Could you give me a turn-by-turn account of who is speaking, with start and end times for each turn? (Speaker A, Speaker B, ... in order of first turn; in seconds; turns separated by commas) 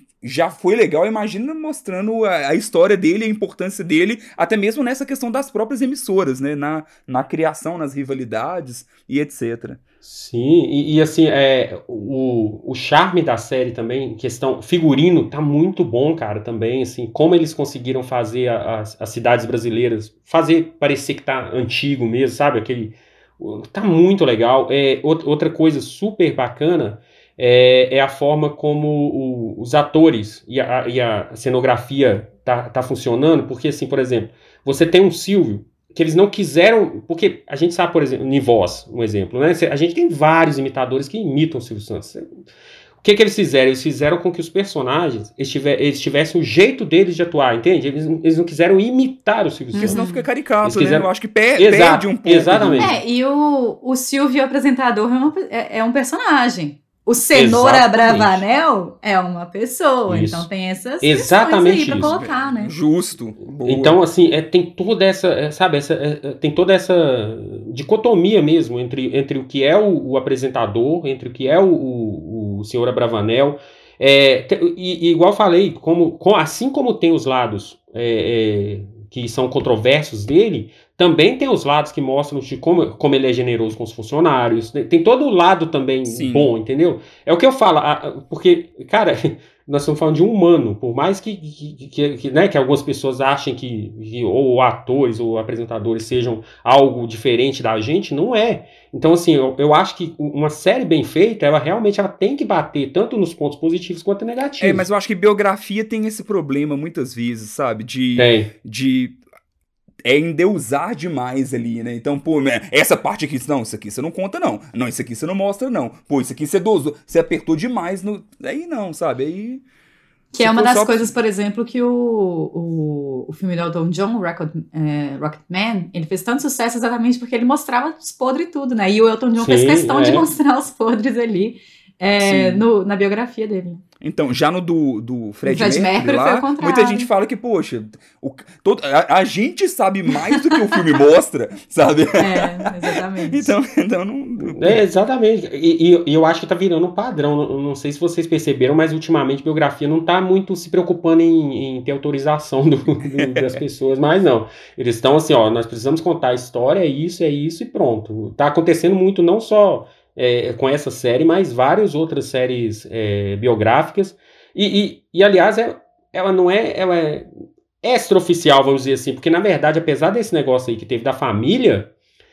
Speaker A: 0.2-9.8, Speaker B: 10.0-42.3, Speaker B: 43.0-50.0, Speaker C: 49.8-50.3, Speaker A: 49.8-53.0, Speaker B: 50.6-53.0, Speaker C: 52.8-62.7, Speaker B: 57.3-58.4, Speaker B: 60.1-60.5, Speaker B: 61.0-62.2, Speaker A: 62.1-64.0, Speaker B: 63.6-104.8, Speaker A: 86.1-86.5, Speaker A: 104.6-109.2, Speaker B: 108.2-108.5, Speaker A: 110.0-119.6, Speaker C: 120.3-133.8, Speaker A: 120.4-121.0, Speaker B: 129.4-130.3, Speaker A: 132.2-132.7, Speaker A: 134.0-142.5, Speaker C: 135.4-137.1, Speaker C: 142.2-143.6, Speaker A: 143.3-144.8, Speaker B: 144.4-167.3, Speaker A: 153.2-153.6, Speaker B: 167.8-171.9